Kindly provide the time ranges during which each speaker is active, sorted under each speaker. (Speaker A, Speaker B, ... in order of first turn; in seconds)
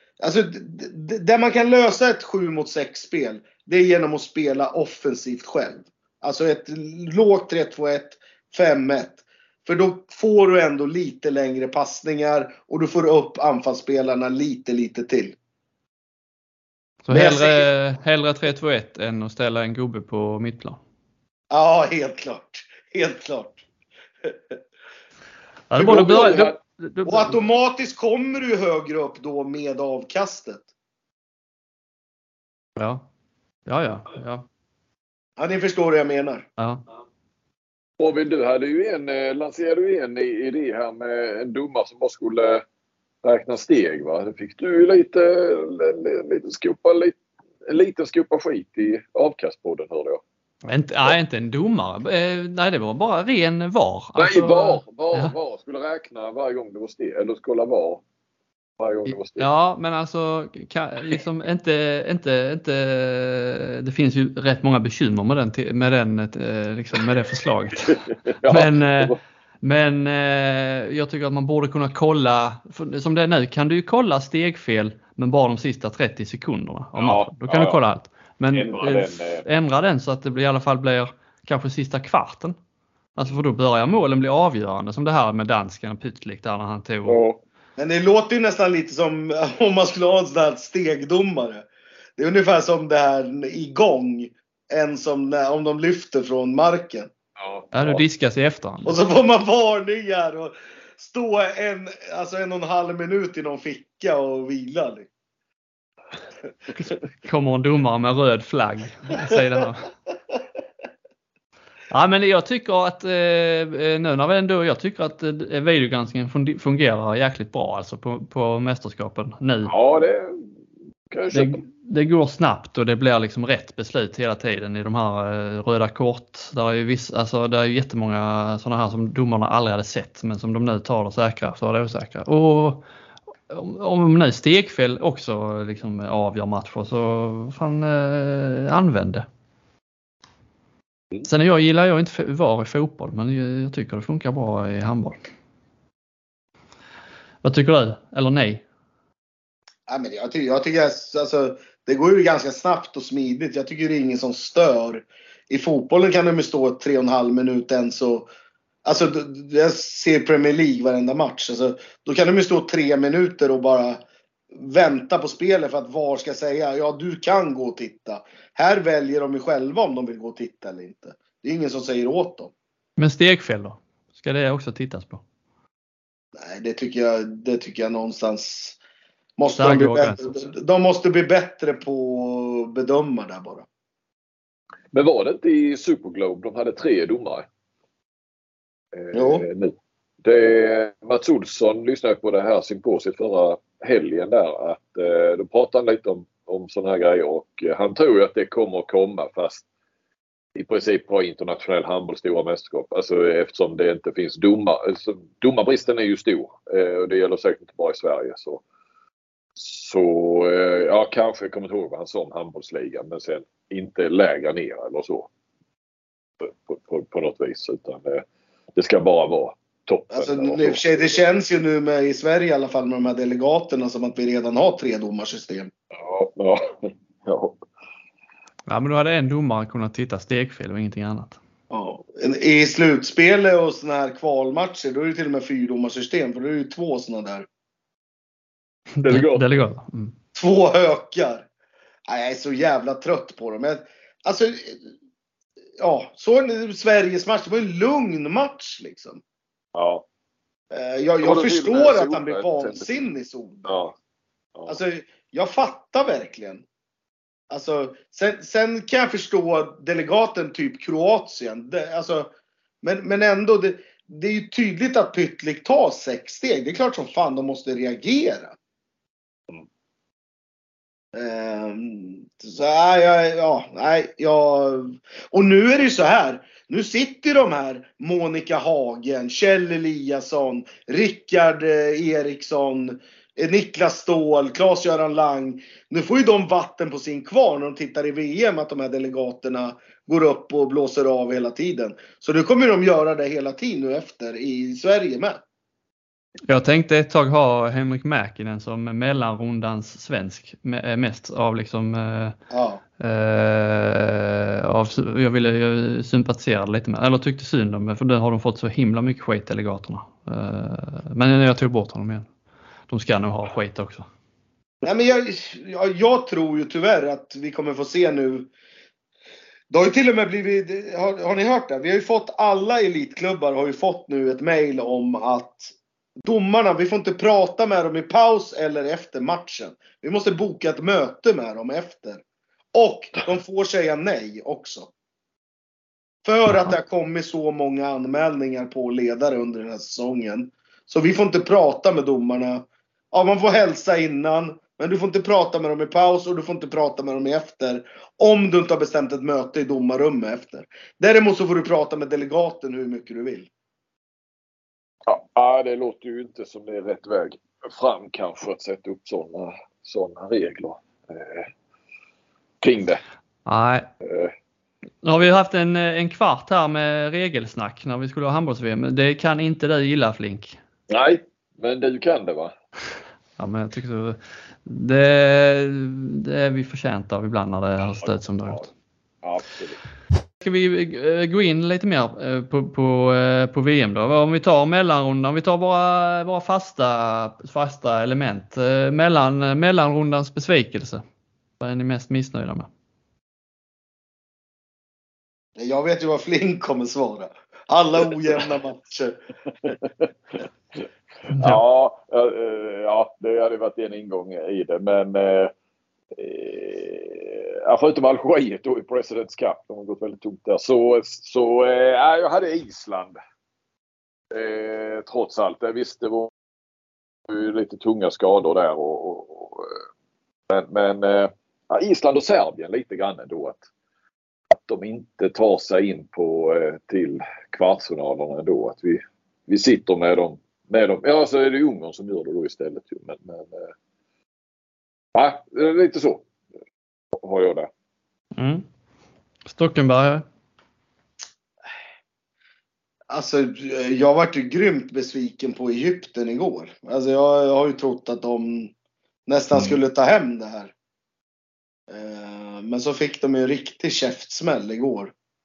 Speaker A: 0.2-15.4, 17.1-17.7, 21.5-23.6, 24.2-24.6, 25.8-26.5, 27.1-30.7, 35.4-36.5, 87.8-97.1, 98.8-105.1, 149.9-158.3, 158.8-164.0, 164.5-172.5, 176.3-178.8, 179.4-183.7, 189.1-189.4, 220.1-225.7, 231.7-237.5, 240.3-241.5, 242.1-244.8, 245.8-249.2, 250.7-253.6, 254.7-256.6, 257.5-262.3, 262.8-268.6, 271.1-295.4, 302.5-302.8, 314.8-318.5, 319.7-332.2, 332.7-334.9, 336.2-353.5, 395.6-399.2, 443.1-448.7, 449.3-450.7, 451.9-455.1
Speaker B: 17.0-20.8, 25.7-27.4, 32.8-33.1, 33.7-34.5, 36.6-36.8, 50.7-55.3, 59.1-68.0, 68.5-82.6, 83.2-87.2, 97.7-99.0, 106.8-109.9, 111.9-119.7, 121.3-132.8, 133.5-139.3, 141.2-145.2, 147.4-148.6, 173.0-175.2, 179.6-180.4, 228.7-231.4, 239.0-240.1, 296.5-302.4, 303.0-312.3, 312.9-314.1, 336.5-336.8, 363.5-363.9, 365.0-370.6, 373.4-378.7, 380.4-391.0, 391.6-392.7, 401.3-401.6, 438.4-438.6, 439.5-440.2
Speaker C: 25.8-26.5, 38.0-42.6, 43.2-50.2, 54.2-58.0, 58.8-59.5, 67.8-69.2, 77.0-77.8, 78.5-79.5, 87.1-87.4, 97.4-98.0, 119.7-120.5, 121.1-121.6, 184.9-187.5, 188.9-199.7, 200.6-208.6, 209.6-215.3, 216.4-220.8, 225.9-227.6, 239.0-239.5, 249.8-250.1, 251.2-253.0, 253.7-253.9, 355.1-361.5, 362.6-363.0, 364.0-364.3, 370.9-372.5, 378.0-378.6, 379.2-379.8, 401.3-405.5, 406.1-413.2, 414.3-416.3, 417.3-419.8, 420.5-423.6, 424.5-433.7, 435.1-436.2, 437.1-437.7